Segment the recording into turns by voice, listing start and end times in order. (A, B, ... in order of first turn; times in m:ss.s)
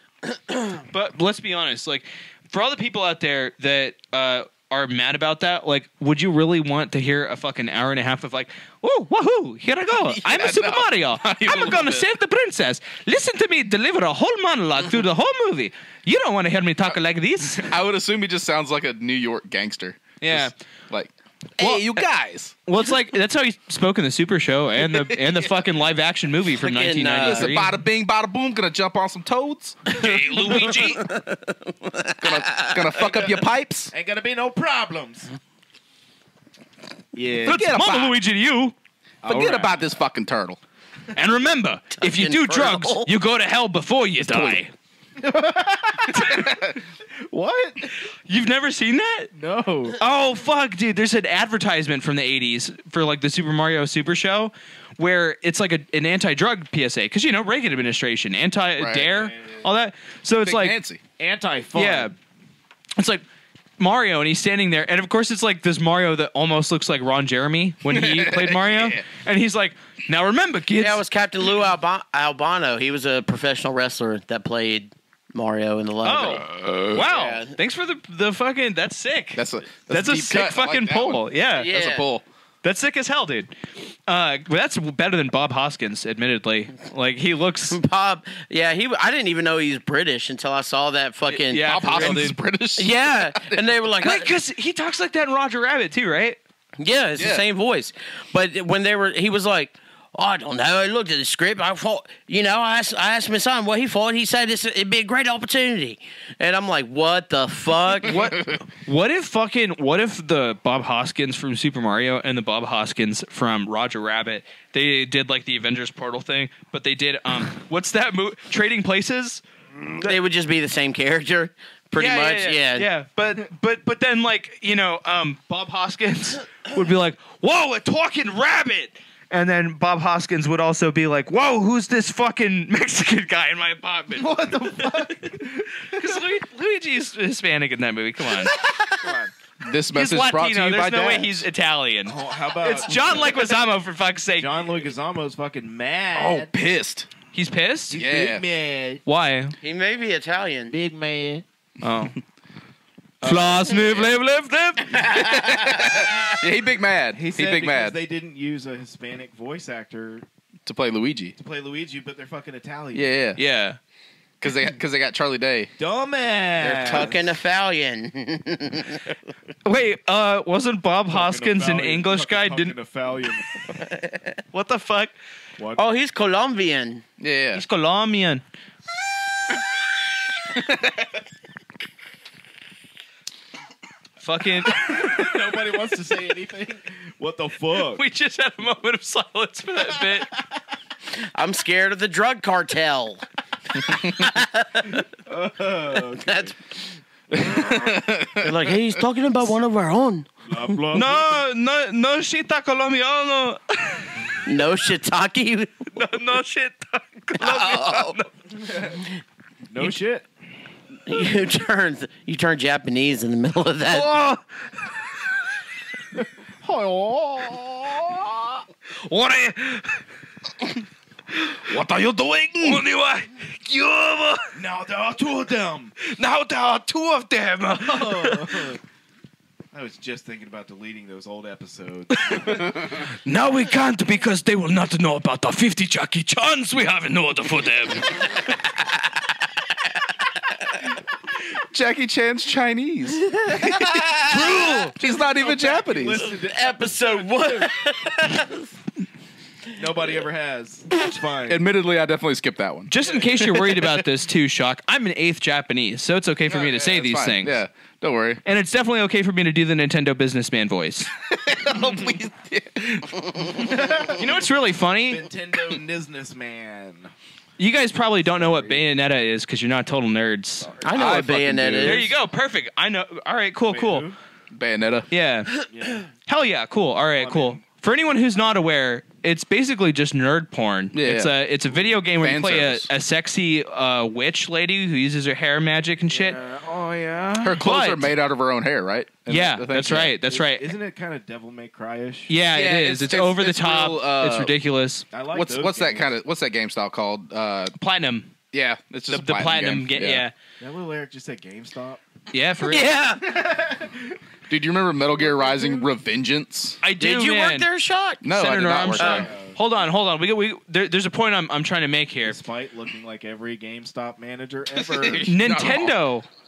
0:00.2-0:00.8 A
0:00.9-0:17.7 B
0:10.0-0:12.1 C
0:17.6-0:22.5 C
0:20.2-0:20.5 B
0:21.6-0:22.0 B
0:22.6-0:27.8 B
0:24.8-0:25.5 C
0:26.6-0:27.5 A
0:27.2-0:30.7 C
0:29.9-0:31.0 B
0:30.3-0:33.0 A
0:32.2-0:33.9 C
0:33.0-0:33.3 D
0:33.9-0:35.3 D
0:37.1-0:37.7 D
0:37.4-0:38.2 C
0:37.4-0:38.7 B
0:39.2-0:39.8 D
0:39.2-0:40.6 C
0:41.1-0:44.7 B
0:42.0-0:43.1 A
0:44.2-0:44.6 C
0:45.2-0:47.9 D
0:46.1-0:46.8 C
0:48.2-0:49.3 B
0:49.3-0:50.0 D
0:50.0-1:00.8 B
0:58.8-0:59.2 C
0:59.2-0:59.6 D
1:00.4-1:01.0 C
1:01.2-1:02.1 D
1:01.7-1:02.1 B
1:03.0-1:03.2 B
1:03.8-1:11.0 B
1:07.9-1:09.0 C
1:10.8-1:17.5 A
1:16.0-1:21.7 B
1:16.3-1:17.1 C
1:19.3-1:22.2 C
1:21.6-1:22.1 A
1:22.6-1:23.5 B
1:24.1-1:27.8 B
1:27.7-1:32.2 A
1:31.3-1:32.4 B
1:31.6-1:33.6 C
1:32.8-1:34.3 A
1:34.0-1:36.4 B
1:36.8-1:48.2 A
1:37.2-1:37.4 C
1:48.0-1:59.4 B
1:48.1-1:48.6 C
2:00.0-2:02.9 A
2:02.0-2:15.3 B
2:14.1-2:16.2 D
2:15.9-2:18.5 B
2:18.6-2:19.3 D
2:19.6-2:21.1 C
2:19.9-2:24.8 B
2:20.9-2:21.4 D
2:22.0-2:23.6 D
2:24.4-2:26.5 D
2:26.1-2:27.1 C
2:27.3-2:28.0 B
2:27.9-2:29.0 D
2:27.9-2:28.4 C
2:29.0-2:29.5 B
2:29.6-2:30.7 A
2:30.7-2:31.4 D
2:31.8-2:32.2 B
2:33.2-2:33.8 D
2:33.2-2:35.2 B
2:33.7-2:34.1 C
2:35.0-2:38.0 C
2:37.1-2:40.2 D
2:40.6-2:41.4 C
2:41.4-2:43.2 D
2:42.9-2:43.4 C
2:43.4-2:43.8 B
2:44.4-2:45.7 C
2:45.8-2:47.2 D
2:46.6-2:49.0 A
2:46.6-2:47.1 C
2:49.6-2:52.8 B
2:51.1-2:53.5 D
2:54.5-2:55.1 B
2:55.6-2:55.8 D
2:55.8-2:57.0 A
2:57.2-2:57.6 C
2:57.5-2:58.4 B
3:00.5-3:01.1 C
3:04.2-3:05.3 B
3:04.7-3:08.0 D
3:07.9-3:10.3 B
3:11.1-3:13.2 A
3:14.0-3:15.0 A
3:15.3-3:16.5 D
3:16.0-3:16.8 A
3:17.4-3:19.0 C
3:18.4-3:20.8 A
3:20.4-3:21.4 D
3:20.9-3:24.2 B
3:24.4-3:25.9 A
3:25.9-3:28.3 B
3:27.4-3:28.2 A
3:28.6-3:29.0 D
3:29.7-3:30.3 D
3:31.0-3:34.1 A
3:33.9-3:34.4 B
3:36.1-3:38.5 D
3:39.0-3:40.0 B
3:41.3-3:44.6 B
3:41.6-3:42.8 C
3:44.5-3:45.9 D
3:46.0-3:48.8 B
3:47.8-3:48.8 D
3:49.7-3:52.9 D
3:52.1-3:52.6 B
3:53.2-3:58.5 B
4:01.7-4:04.1 C
4:03.4-4:04.2 A
4:04.3-4:05.0 B
4:04.4-4:07.8 D
4:05.0-4:06.3 C
4:06.4-4:08.6 A
4:09.7-4:11.6 D
4:11.5-4:12.9 C
4:12.9-4:17.6 B
4:13.0-4:13.6 D
4:16.5-4:18.4 C
4:18.4-4:21.1 B
4:21.2-4:23.6 C
4:23.5-4:24.5 D
4:24.2-4:25.3 B
4:25.0-4:27.1 D
4:27.6-4:30.8 B
4:28.2-4:28.8 D
4:30.6-4:31.2 D
4:30.8-4:32.1 A
4:30.9-4:32.0 C
4:31.8-4:34.1 B
4:33.7-4:34.2 D
4:34.5-4:35.1 C
4:35.1-4:35.6 B
4:35.7-4:36.1 D
4:36.2-4:46.4 B
4:37.1-4:37.6 D
4:40.9-4:41.3 C
4:42.2-4:42.9 C
4:46.1-4:47.6 D
4:47.4-4:50.1 C
4:47.6-4:48.1 B
4:49.3-4:50.8 B
4:50.2-4:52.4 D
4:52.3-4:55.0 B
4:52.5-4:54.5 C
4:55.1-4:56.1 D
4:55.3-4:57.7 C
4:57.8-4:58.3 B
4:58.5-5:00.2 C
4:59.1-5:00.3 B
5:00.6-5:02.0 D
5:02.3-5:02.9 B
5:02.6-5:03.2 A
5:03.2-5:04.2 D
5:04.5-5:06.8 C
5:05.0-5:05.9 D
5:06.8-5:07.7 B
5:07.0-5:08.3 A
5:08.2-5:09.3 C
5:08.3-5:12.4 B
5:09.0-5:09.2 A
5:09.0-5:09.6 D
5:12.2-5:15.3 D
5:14.8-5:16.0 C
5:15.2-5:16.2 B